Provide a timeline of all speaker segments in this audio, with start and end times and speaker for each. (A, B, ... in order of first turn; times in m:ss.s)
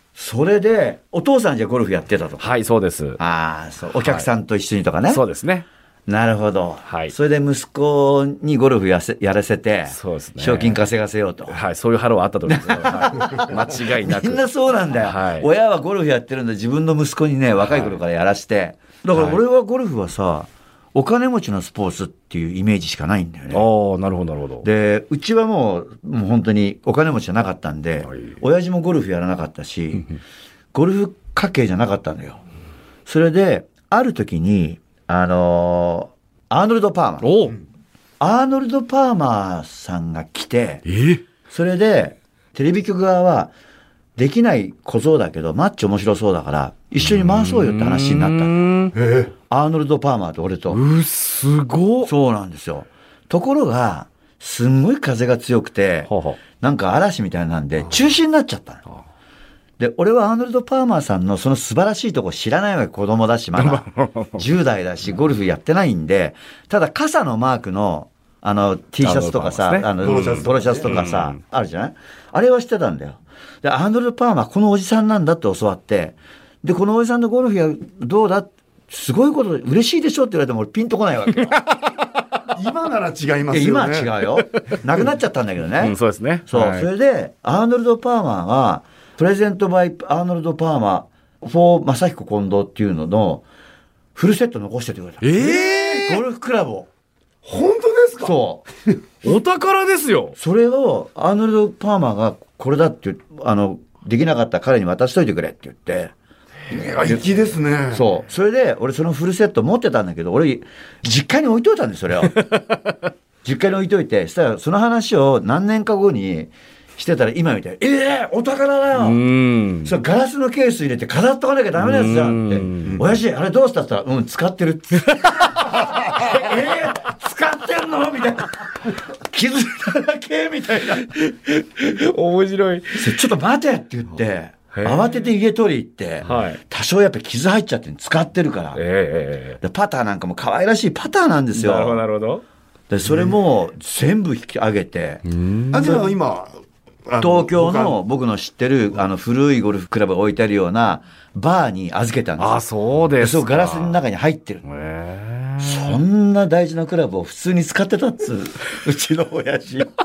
0:00.2-0:02.4 A
0:02.4-0:03.2 B
0:03.2-0:05.2 A
0:05.1-0:05.7 B
0:06.1-0:11.6 A
0:06.8-0:07.1 B
0:09.9-0:10.8 B
0:11.5-0:14.4 B
0:12.5-0:23.6 A
0:14.9-0:15.5 B
0:17.6-0:18.0 B
0:19.1-0:19.4 B
0:23.5-0:24.6 B
0:24.6-0:30.1 A
0:28.0-0:28.4 B
0:30.7-0:32.4 A
0:33.0-0:37.3 A
0:37.2-0:37.6 B
0:38.2-0:40.8 A
0:40.8-0:41.2 B
0:41.5-0:43.5 A
0:44.2-0:48.5 A
0:47.0-0:49.0 B
0:48.9-0:49.3 C
0:49.5-0:50.8 A
0:50.7-0:52.1 B
0:52.0-0:58.8 A
0:56.0-0:56.4 B
0:59.8-1:21.6 A
1:03.6-1:04.5 B
1:09.0-1:11.4 B
1:10.0-1:10.9 C
1:21.4-1:22.1 B
1:22.5-1:24.1 C
1:23.5-1:26.0 A
1:25.8-1:26.9 B
1:26.5-1:33.4 A
1:34.1-1:36.9 A
1:35.2-1:36.2 B
1:37.4-1:38.4 C
1:38.2-1:38.6 A
1:39.2-1:40.4 B
1:40.4-1:46.1 A
1:46.7-1:48.1 C
1:47.9-1:52.3 A
1:52.3-1:53.0 B
1:53.4-1:59.2 A
1:59.0-1:59.9 B
1:59.8-2:11.1 A
2:01.8-2:03.0 B
2:05.0-2:05.7 B
2:10.8-2:13.2 B
2:13.0-2:18.8 A
2:14.7-2:15.1 B
2:16.2-2:16.6 B
2:18.7-2:19.6 B
2:19.6-2:22.0 A
2:21.5-2:22.4 B
2:22.9-2:25.2 A
2:25.2-2:26.0 B
2:25.7-2:28.0 C
2:25.8-2:26.0 A
2:27.2-2:32.6 A
2:32.4-2:34.0 B
2:33.2-2:34.6 A
2:34.6-2:36.0 B
2:35.6-2:39.9 A